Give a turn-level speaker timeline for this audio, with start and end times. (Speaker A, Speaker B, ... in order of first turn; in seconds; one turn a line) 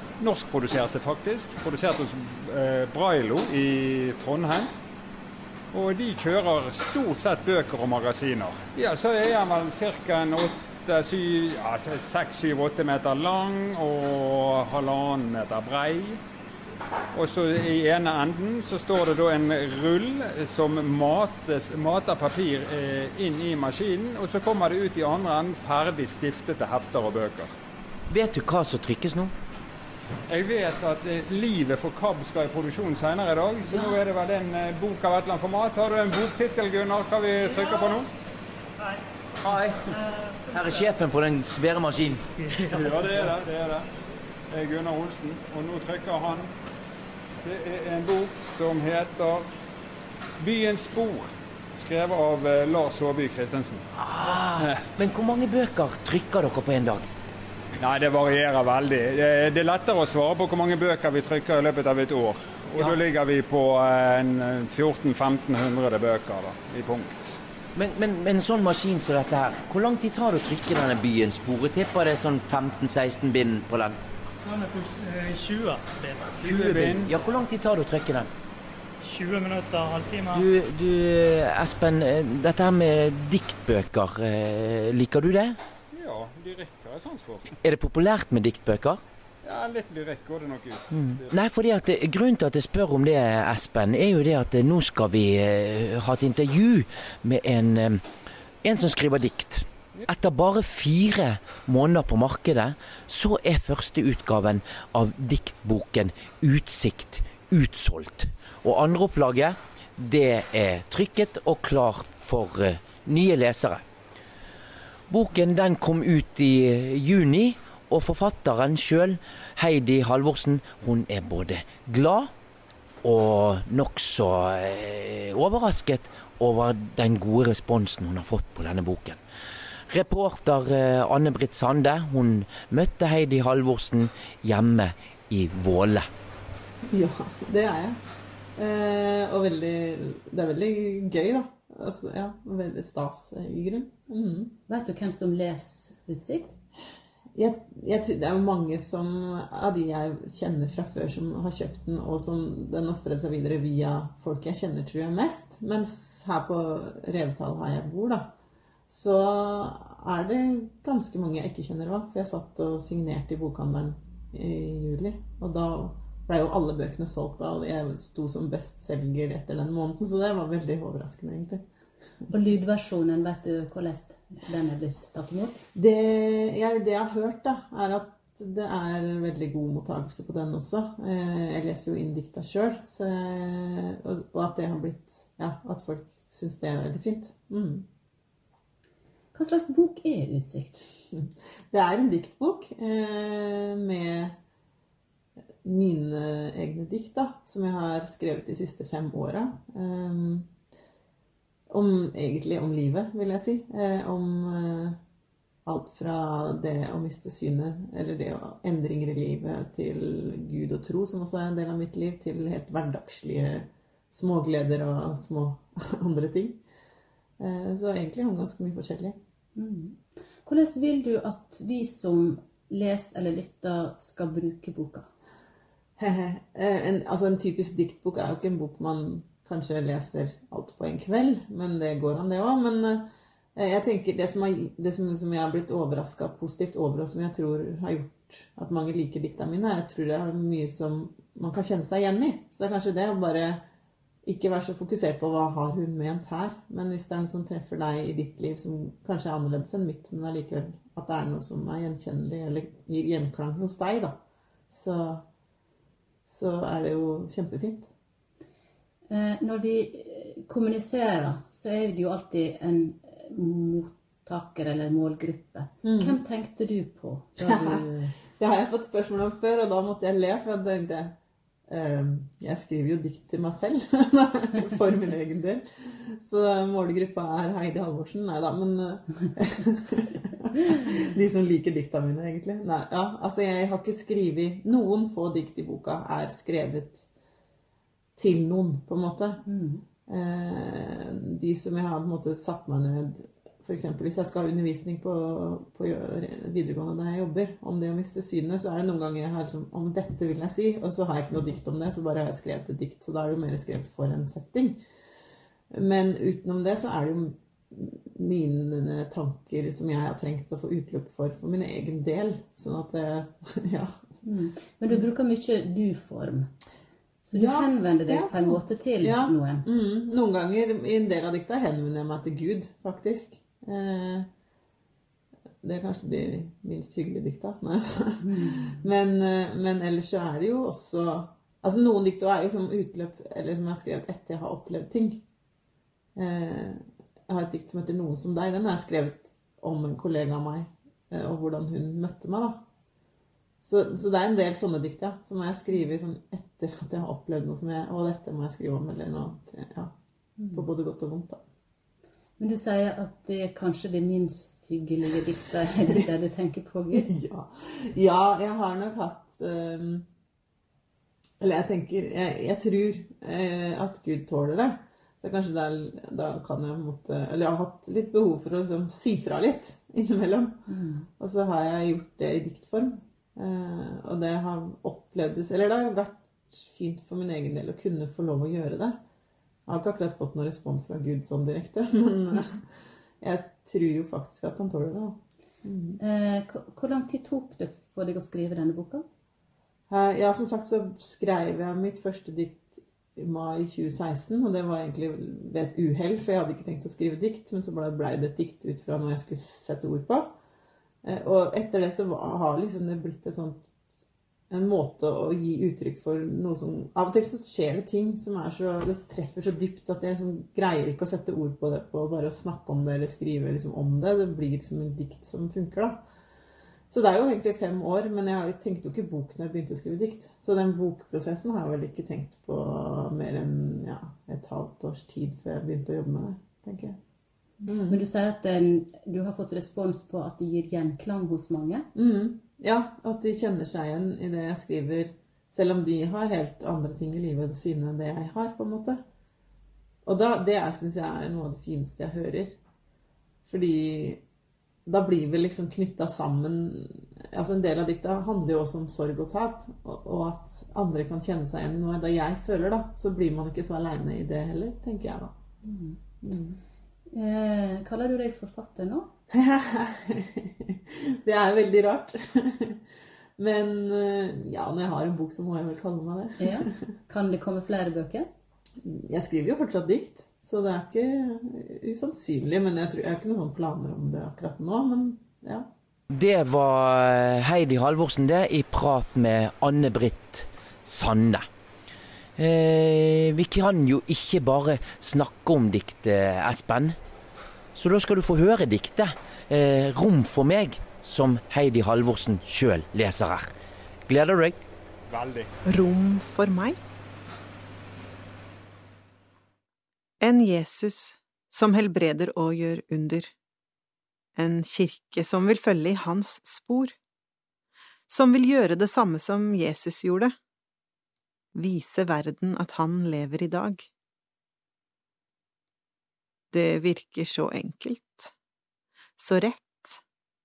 Speaker A: 0.2-4.7
Speaker A: 5.7-16.2
Speaker A: 17.1-27.5
Speaker B: 28.1-29.3
Speaker A: 30.3-38.1
Speaker B: 33.7-34.0
Speaker C: 37.5-38.0
Speaker B: 39.4-39.9
Speaker C: 39.8-40.9
Speaker B: 40.5-42.2
Speaker C: 42.4-43.4
Speaker A: 42.7-43.9
Speaker A: 44.5-46.5
Speaker A: 47.4-49.5
Speaker A: 50.4-53.8
Speaker B: 53.9-57.1
Speaker A: 54.6-54.8
Speaker A: 57.8-67.4
Speaker B: 67.7-74.0
Speaker C: 74.4-76.4
Speaker B: 76.4-78.3
Speaker A: 76.4-77.1
Speaker C: 79.0-80.5
Speaker B: 80.3-85.6
Speaker A: 85.9-87.5
Speaker B: 87.6-89.0
Speaker A: 89.4-91.3
Speaker B: 90.9-98.1
Speaker B: 98.6-113.8
Speaker B: 115.1-122.3
Speaker B: 123.0-129.2
Speaker B: 129.9-136.1
Speaker D: 136.9-138.0
Speaker D: 138.6-144.6
Speaker E: 144.7-146.5
Speaker D: 147.3-158.3
Speaker D: 158.9-171.6
Speaker E: 172.3-175.6
Speaker D: 175.8-187.8
Speaker E: 189.3-190.9
Speaker D: 191.7-194.4
Speaker D: 195.6-200.5
Speaker D: 201.7-205.0
Speaker D: 205.6-216.6
Speaker D: 217.4-219.2
Speaker E: 219.6-225.1
Speaker D: 226.0-243.6
Speaker D: 244.2-255.2
Speaker D: 256.2-257.9
Speaker E: 259.1-268.1
Speaker D: 265.8-266.2
Speaker D: 267.4-271.1
Speaker D: 271.7-287.0
Speaker D: 288.2-289.4
Speaker E: 289.4-289.8
Speaker D: 290.1-304.8
Speaker D: 305.7-313.9
Speaker E: 314.2-316.5
Speaker E: 317.2-319.6
Speaker D: 317.3-324.3
Speaker D: 325.6-335.2
Speaker E: 328.2-328.8
Speaker D: 336.1-342.6
Speaker D: 343.6-349.9
Speaker E: 350.4-350.7
Speaker D: 350.5-351.4
Speaker E: 352.4-357.1
Speaker D: 356.9-360.1
Speaker D: 361.4-370.6
Speaker E: 370.7-371.1
Speaker D: 371.2-379.0
Speaker D: 379.7-382.6
Speaker D: 383.2-386.0
Speaker E: 386.0-389.1
Speaker D: 389.9-400.4
Speaker D: 401.0-403.6
Speaker D: 404.5-416.0
Speaker D: 416.9-427.0
Speaker E: 427.6-431.9
Speaker D: 427.7-428.0
Speaker D: 431.9-439.0
Speaker D: 440.0-442.6
Speaker D: 443.4-444.2
Speaker D: 444.9-455.4
Speaker E: 455.6-456.6
Speaker E: 457.1-459.1
Speaker D: 459.3-462.8
Speaker D: 463.4-466.8
Speaker E: 466.4-468.3
Speaker D: 468.8-475.7
Speaker B: 476.1-481.5
Speaker B: 482.4-487.0
Speaker B: 487.7-493.5
Speaker B: 494.1-494.6
Speaker A: 495.1-495.5
Speaker F: 495.7-496.8
Speaker F: 500.2-503.3
Speaker F: 504.4-506.9
Speaker F: 508.1-510.3
Speaker F: 511.5-513.9
Speaker F: 516.5-518.3
Speaker F: 519.2-520.0